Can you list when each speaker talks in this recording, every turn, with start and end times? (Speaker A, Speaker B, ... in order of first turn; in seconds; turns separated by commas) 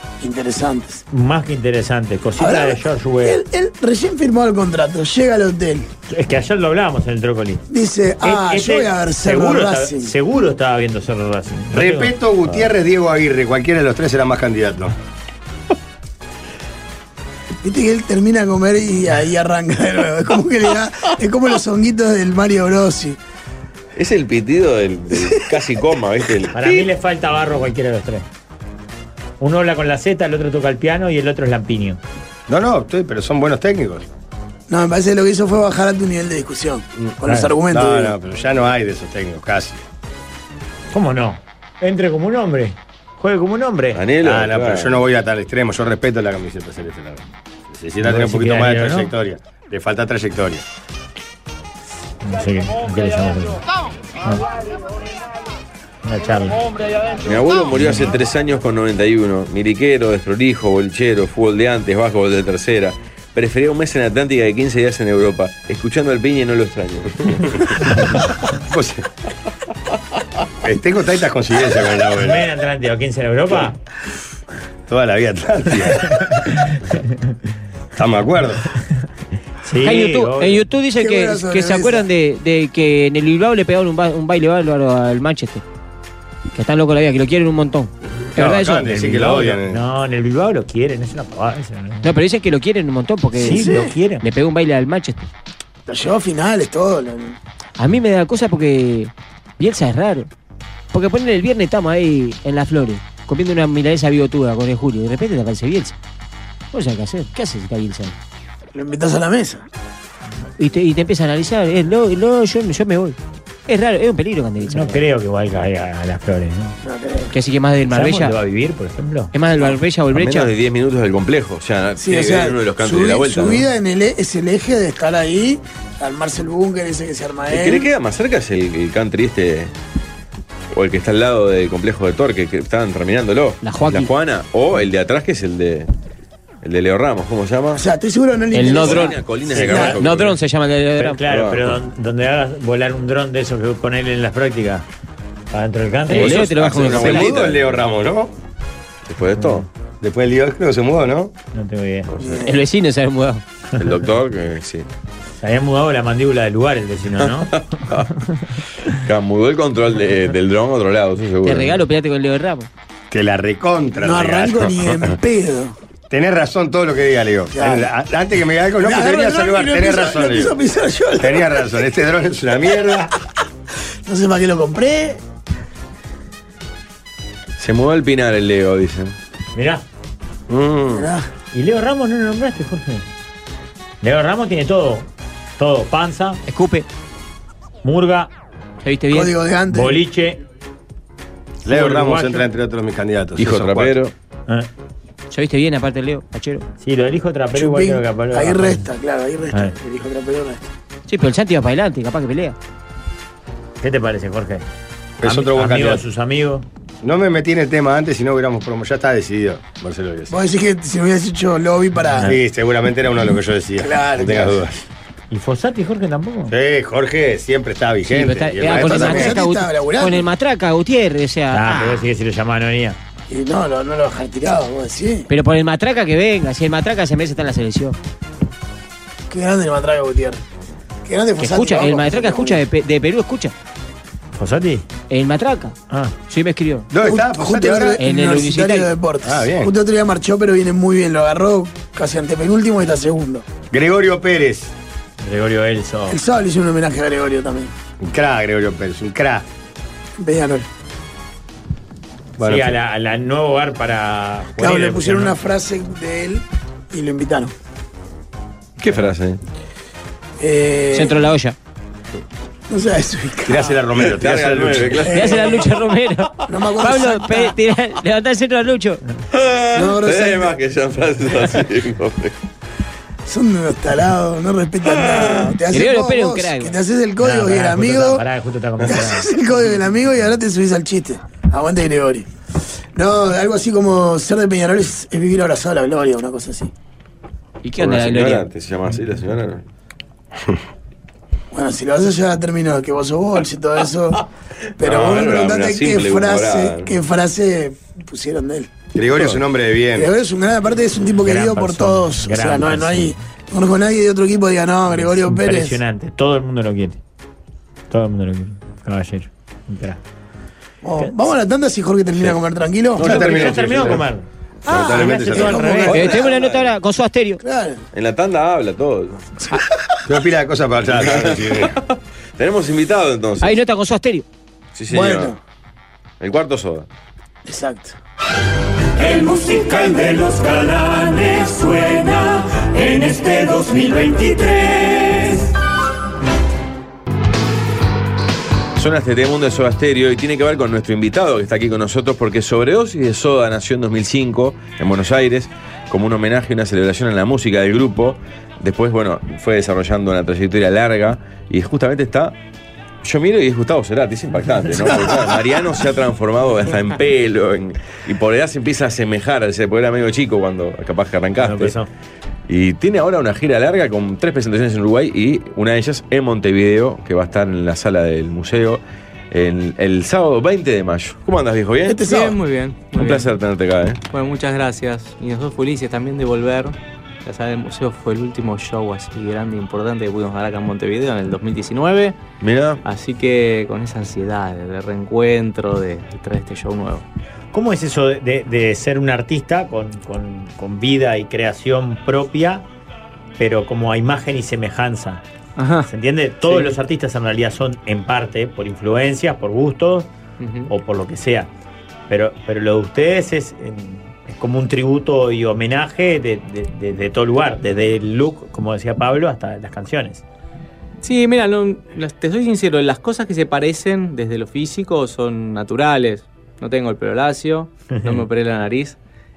Speaker A: 0.2-1.0, Speaker B: 1.1-3.4, Speaker A: 2.4-5.9, Speaker B: 6.1-7.6, Speaker A: 7.7-10.1, Speaker B: 8.2-12.1, Speaker C: 11.7-14.9, Speaker A: 17.6-23.2, Speaker D: 23.9-26.9, Speaker A: 25.1-25.4, Speaker B: 26.5-28.2, Speaker B: 29.4-32.0, Speaker C: 32.5-34.0, Speaker A: 34.7-38.1, Speaker B: 37.2-37.5, Speaker C: 37.7-39.8, Speaker B: 40.9-44.0, Speaker D: 43.9-45.0, Speaker C: 44.2-50.6, Speaker B: 48.0-49.1, Speaker B: 52.2-53.6, Speaker B: 56.0-56.6, Speaker D: 57.2-68.0, Speaker B: 57.8-58.1, Speaker C: 68.7-69.0, Speaker C: 70.6-72.5, Speaker B: 72.2-73.8, Speaker C: 74.9-76.3, Speaker B: 76.3-77.2, Speaker C: 78.0-78.7, Speaker B: 79.6-80.6, Speaker E: 79.8-85.6, Speaker A: 81.0-82.1, Speaker E: 86.5-88.9, Speaker C: 88.3-89.8, Speaker B: 88.8-92.1, Speaker E: 92.0-95.3, Speaker B: 93.3-94.2, Speaker A: 93.4-93.9, Speaker A: 95.9-97.4, Speaker E: 97.8-100.3, Speaker E: 100.9-105.9, Speaker E: 106.7-108.1, Speaker A: 108.7-109.6, Speaker E: 110.6-115.0, Speaker B: 114.6-116.8, Speaker A: 116.8-117.3, Speaker E: 117.3-118.3, Speaker B: 117.9-119.3, Speaker E: 119.3-120.5, Speaker D: 120.1-123.6, Speaker A: 122.0-127.9, Speaker D: 127.5-129.7, Speaker D: 130.7-135.9, Speaker E: 133.6-134.1, Speaker D: 136.6-137.8, Speaker A: 137.7-140.0, Speaker E: 138.5-141.2, Speaker D: 138.6-140.4, Speaker B: 139.5-140.0, Speaker B: 141.0-144.8, Speaker D: 141.3-141.7, Speaker B: 145.5-146.5, Speaker E: 146.1-147.3, Speaker D: 146.1-147.8, Speaker C: 146.6-148.3, Speaker D: 149.1-149.7, Speaker B: 149.4-149.6, Speaker C: 150.0-151.3, Speaker B: 151.5-152.1, Speaker D: 152.1-152.4, Speaker A: 152.2-152.6, Speaker E: 152.4-153.4, Speaker D: 153.8-154.9, Speaker B: 155.4-158.3, Speaker D: 157.2-158.1, Speaker D: 158.9-161.8, Speaker E: 161.4-162.7, Speaker C: 163.1-164.7, Speaker A: 164.0-165.8, Speaker C: 166.1-170.5, Speaker A: 167.5-167.9, Speaker A: 168.8-171.7, Speaker C: 171.2-173.1, Speaker A: 174.1-175.2, Speaker D: 177.6-179.1, Speaker B: 179.5-179.8, Speaker D: 180.5-181.1, Speaker A: 180.9-181.3, Speaker B: 181.5-183.0, Speaker B: 184.0-186.4, Speaker E: 186.5-186.9, Speaker B: 187.8-188.3, Speaker E: 188.8-189.3, Speaker A: 189.1-190.0, Speaker B: 189.7-190.4, Speaker C: 191.7-193.9, Speaker B: 191.7-192.4, Speaker D: 193.4-194.1, Speaker E: 195.3-196.7, Speaker B: 196.8-198.8, Speaker A: 197.5-200.6, Speaker E: 201.1-202.6, Speaker B: 203.8-204.6, Speaker C: 205.2-206.0, Speaker B: 205.2-206.6, Speaker C: 207.0-210.3, Speaker A: 210.3-212.4, Speaker C: 212.2-214.8, Speaker A: 213.8-214.6, Speaker B: 215.3-216.5, Speaker C: 216.5-219.4, Speaker E: 218.1-222.1, Speaker A: 218.7-220.3, Speaker B: 221.5-223.0, Speaker A: 223.3-225.3, Speaker E: 225.3-228.0, Speaker A: 229.3-230.4, Speaker A: 231.0-232.6, Speaker E: 231.4-233.5, Speaker B: 234.4-234.9, Speaker E: 235.1-235.7, Speaker E: 236.3-236.9, Speaker C: 236.9-238.0, Speaker A: 237.0-243.4, Speaker E: 238.0-238.9, Speaker C: 239.2-239.7, Speaker C: 243.7-244.7, Speaker B: 245.2-246.2, Speaker A: 246.1-247.7, Speaker C: 248.0-249.4, Speaker A: 250.2-250.7, Speaker C: 252.4-252.7, Speaker B: 252.4-255.3, Speaker A: 254.6-257.5, Speaker D: 258.8-259.4, Speaker A: 260.4-261.2, Speaker E: 260.9-261.6, Speaker A: 262.7-263.7, Speaker C: 263.4-265.3, Speaker D: 264.0-265.7, Speaker A: 265.0-265.6, Speaker E: 265.1-269.0, Speaker A: 266.5-267.5, Speaker D: 269.3-272.4, Speaker A: 269.7-270.6, Speaker A: 273.2-278.2, Speaker D: 275.1-275.5, Speaker E: 275.7-276.8, Speaker B: 277.2-279.3, Speaker A: 278.8-282.3, Speaker A: 282.9-286.7, Speaker E: 287.6-288.4, Speaker D: 287.8-289.6, Speaker A: 291.5-294.2, Speaker A: 294.8-298.7, Speaker D: 294.8-296.9, Speaker C: 298.9-300.1, Speaker A: 299.9-305.8, Speaker B: 301.2-303.2, Speaker B: 305.1-307.0, Speaker B: 307.9-310.0, Speaker A: 310.8-313.3, Speaker D: 313.0-313.9, Speaker C: 313.0-314.0, Speaker B: 313.0-314.3, Speaker A: 314.6-316.5, Speaker C: 314.7-316.1, Speaker B: 314.8-316.2, Speaker E: 315.9-317.4, Speaker D: 316.1-316.7, Speaker A: 317.4-317.8, Speaker D: 317.9-319.3, Speaker C: 320.1-321.7, Speaker D: 320.9-323.6, Speaker E: 323.4-324.2, Speaker D: 324.7-325.3, Speaker A: 324.9-325.4, Speaker D: 326.2-326.9, Speaker A: 327.4-327.9, Speaker F: 328.9-335.5, Speaker D: 338.8-352.3, Speaker D: 353.0-361.7, Speaker B: 361.4-361.9, Speaker D: 362.5-372.1, Speaker A: 371.8-372.4, Speaker G: 372.0-373.3, Speaker D: 372.9-374.0, Speaker G: 374.1-382.1, Speaker D: 382.4-382.8, Speaker G: 382.8-387.0, Speaker B: 387.5-392.6, Speaker B: 393.4-395.2, Speaker G: 395.6-395.9, Speaker B: 395.9-400.1, Speaker G: 396.5-396.7, Speaker G: 400.4-400.7, Speaker B: 400.7-401.5, Speaker B: 402.1-410.2, Speaker G: 411.0-418.9